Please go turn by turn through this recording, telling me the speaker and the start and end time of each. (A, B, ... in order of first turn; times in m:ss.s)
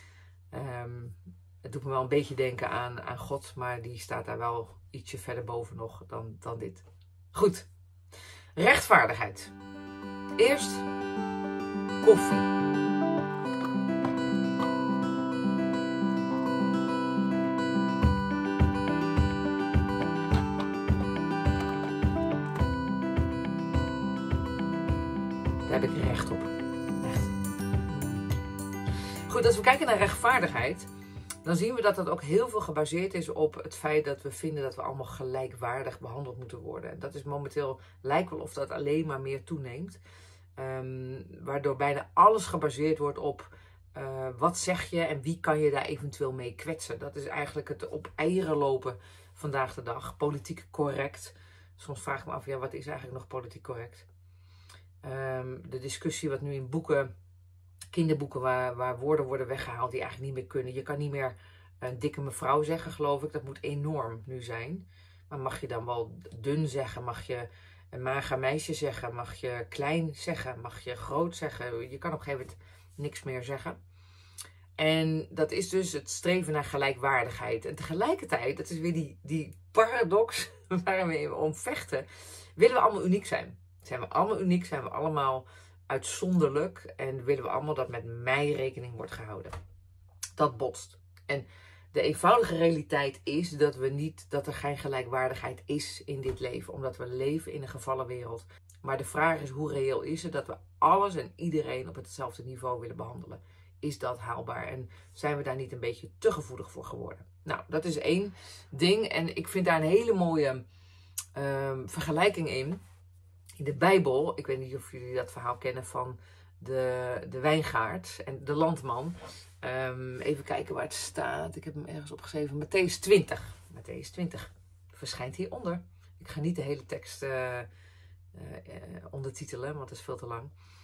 0:00.5-0:07.7 A
0:08.6-0:09.5 A
0:10.4-0:10.9 A
0:12.0-0:12.5 A
0:25.6-0:27.3 A
0:27.9-0:28.2 A
0:29.2-0:30.9 A
0:31.4-0:40.0 A
0:40.6-0:54.1 A
0:55.0-0:57.1 A
0:57.9-1:13.8 A
1:14.8-1:29.5 A
1:30.4-1:50.6 A
1:51.3-1:52.8 A
1:53.6-2:07.7 A
2:08.3-2:10.5 A